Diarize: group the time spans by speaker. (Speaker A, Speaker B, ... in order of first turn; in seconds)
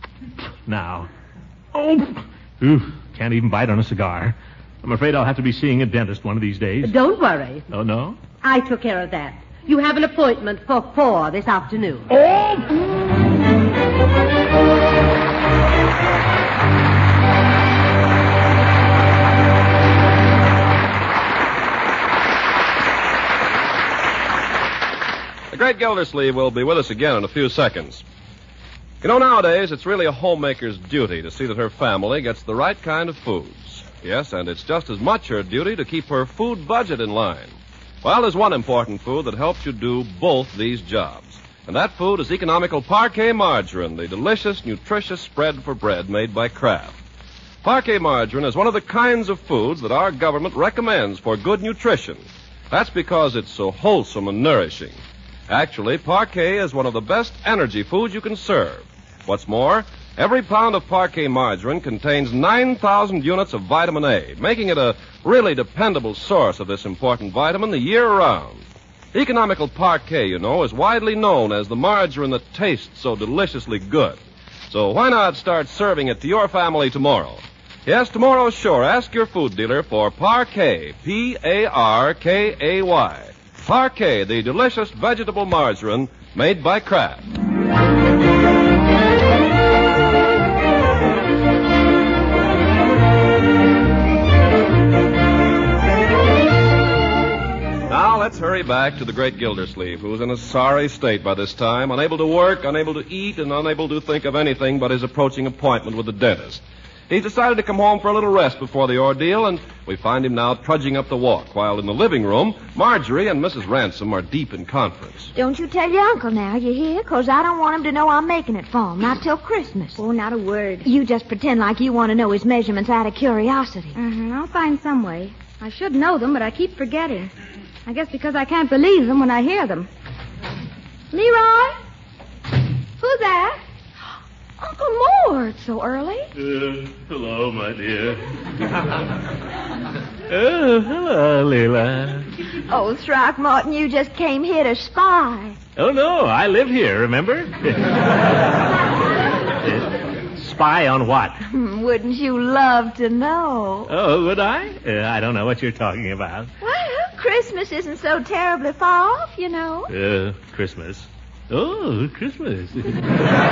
Speaker A: 0.7-1.1, 1.7-6.9, 7.7-8.2, 12.1-12.7, 136.3-138.2, 140.3-142.3, 145.8-148.1, 149.6-151.4, 153.9-156.5, 159.9-163.0
Speaker B: 6.8-7.7, 8.4-12.1
Speaker C: 25.5-28.0, 29.0-47.0, 47.6-87.2, 97.9-115.3
Speaker D: 115.3-120.0, 120.8-124.0, 142.7-145.6, 151.4-153.9, 156.6-159.9
Speaker E: 120.0-120.9, 123.9-127.3, 127.8-129.9, 131.1-131.8, 133.0-133.6, 134.6-136.2